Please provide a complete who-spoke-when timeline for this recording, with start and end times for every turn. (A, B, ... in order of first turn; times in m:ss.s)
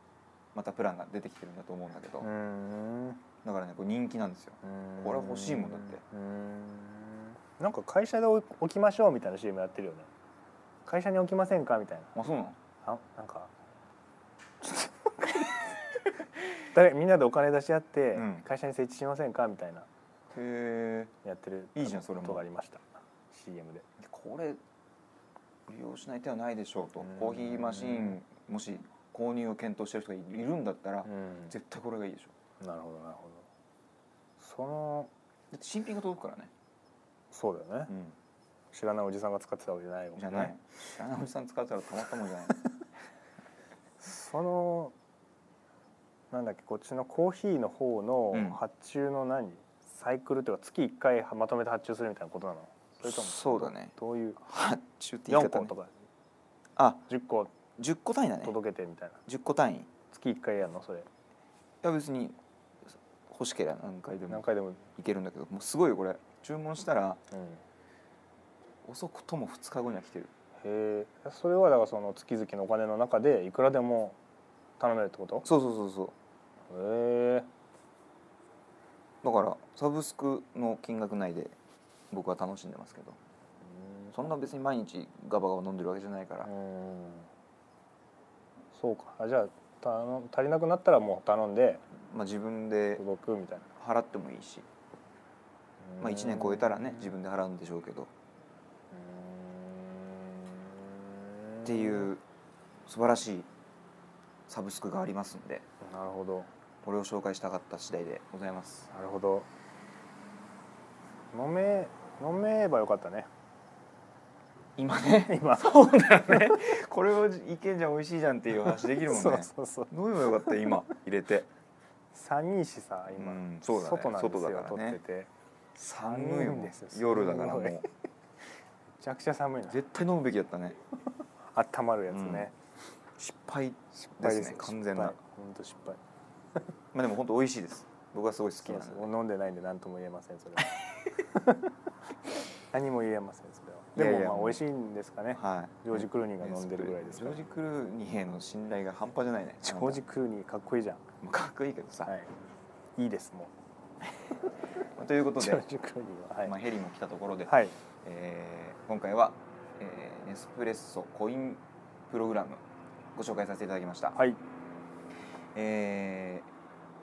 0:00.5-0:02.3 A
0:02.2-0:03.2 B
0:03.4-0:06.0 A
0:04.6-0:10.1 B
0:10.8-0:12.1 B
0:12.1-0:12.6 A
0:12.8-0:13.5 B
0:14.6-0:15.6 B
0:16.7-0:19.9 B
0:18.1-0:18.4 A
0:20.3-0:21.1 A
0:21.2-0:23.8 B
0:21.7-0:22.4 A
0:24.0-0:24.6 A
0:25.7-0:32.3 A
0:27.0-0:28.2 B
0:31.0-0:31.5 B
0:32.6-0:33.5 B
0:34.4-0:35.1 B
0:35.5-0:36.5 A
0:37.3-0:37.9 B
0:37.9-0:38.2 A
0:38.7-0:40.5 B
0:40.2-0:42.6 A
0:44.0-0:44.9 B
0:46.3-0:54.4 B
0:48.3-0:48.6 A
0:53.0-0:55.7 A
0:55.3-0:55.9 B
0:56.8-0:57.1 A
0:57.1-0:57.5 B
0:57.8-0:58.6 A
0:58.4-0:59.2 B
0:59.2-0:59.9 A
1:00.1-1:01.1 B
1:01.8-1:02.4 A
1:03.3-1:07.2 A
1:04.3-1:04.8 B
1:07.3-1:07.6 B
1:08.8-1:10.3 A
1:10.6-1:14.2 B
1:14.8-1:15.5 B
1:15.4-1:16.1 A
1:16.7-1:17.5 B
1:19.2-1:21.6 A
1:22.1-1:23.2 A
1:23.6-1:24.2 B
1:24.1-1:26.5 A
1:26.4-1:27.3 B
1:28.7-1:31.8 B
1:32.0-1:33.0 A
1:33.0-1:33.7 B
1:33.8-1:34.6 A
1:35.8-1:37.1 B
1:36.0-1:38.1 A
1:38.9-1:42.1 B
1:41.6-1:42.2 A
1:42.9-1:43.5 A
1:44.5-1:45.6 A
1:45.8-1:46.5 B
1:46.8-1:48.9 A
1:48.9-1:49.5 B
1:51.3-1:53.3 B
1:54.8-2:01.5 A
1:55.2-1:56.4 B
1:58.7-2:00.8 B
2:02.1-2:05.3 B
2:03.1-2:05.0 A
2:05.7-2:07.9 A
2:06.0-2:07.9 B
2:09.0-2:09.8 B
2:09.7-2:10.8 A
2:11.5-2:12.6 B
2:12.1-2:12.5 A
2:13.2-2:15.2 A
2:14.1-2:16.0 B
2:16.9-2:19.1 A
2:18.6-2:21.7 B
2:22.7-2:27.4 B
2:24.0-2:24.6 A
2:25.3-2:30.0 A
2:29.6-2:31.0 B
2:31.2-2:32.1 A
2:32.0-2:32.3 B
2:33.0-2:33.5 B
2:35.0-2:35.6 A
2:35.4-2:36.5 B
2:36.4-2:42.6 A
2:37.4-2:37.8 B
2:43.1-2:44.2 A
2:44.2-2:44.4 B
2:45.5-2:46.5 A